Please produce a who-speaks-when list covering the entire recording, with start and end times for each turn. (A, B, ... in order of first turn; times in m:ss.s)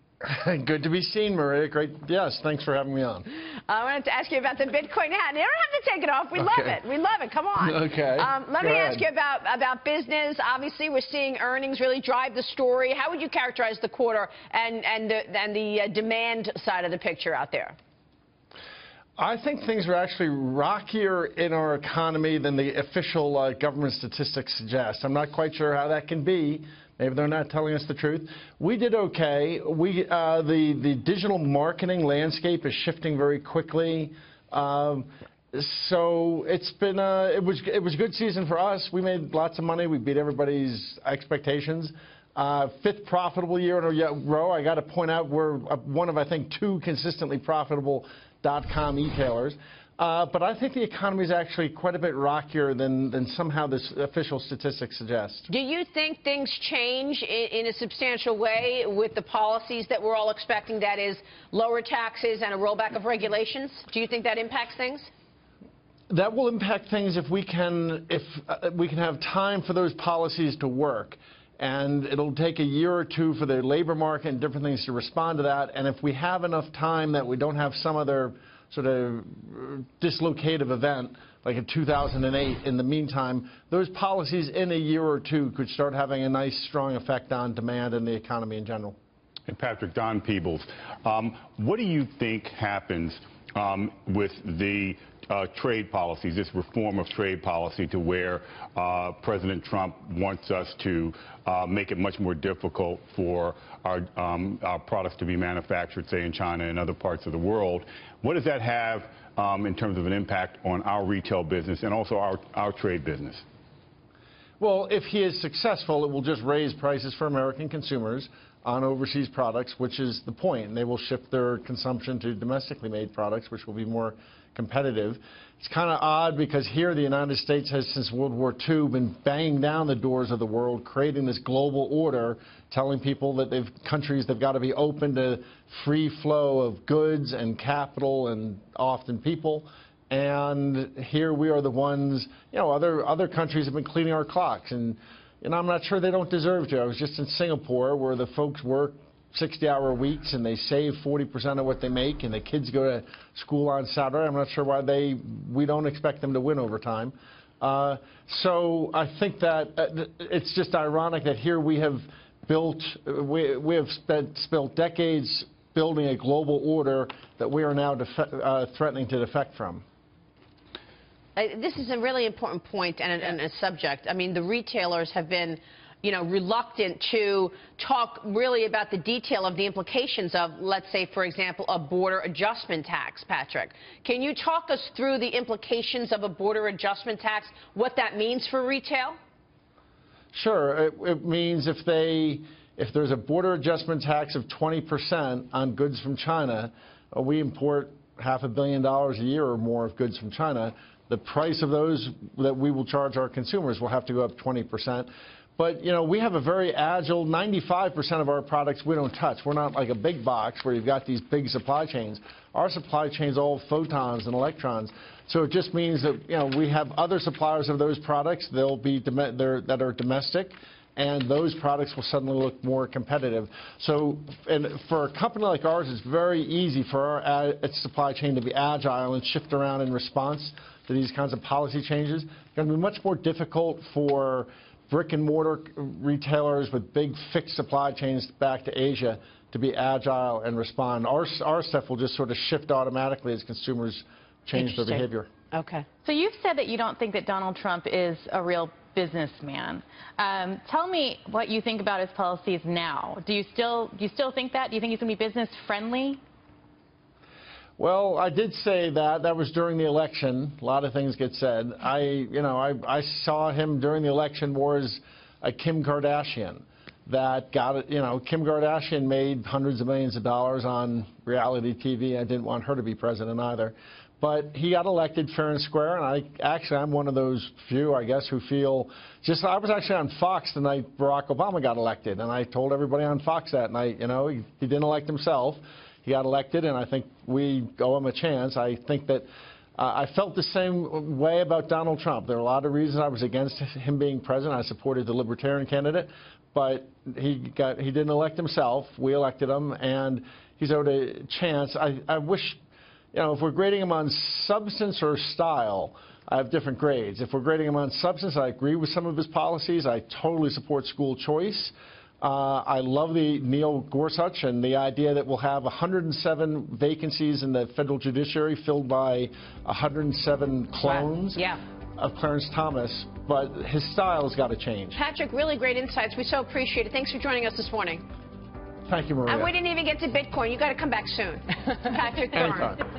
0:00.2-0:03.3 A
0:03.7-0:17.8 B
0:06.4-0:06.8 A
0:07.6-0:09.1 A
0:19.2-0:55.5 A
0:55.5-1:05.1 B
1:06.1-1:29.0 A
1:29.5-1:53.4 C
1:54.6-2:49.8 A
2:51.4-3:09.2 B
3:10.3-4:05.3 A
4:04.6-4:05.8 B
4:06.0-4:16.2 D
4:17.8-4:49.3 A
4:49.8-5:02.6 A
5:03.1-5:21.4 A
5:20.8-5:21.6 B
5:22.0-5:25.0 A
5:24.9-5:28.0 B
5:28.9-5:29.5 A
5:29.3-5:32.8 B
5:32.4-5:32.8 A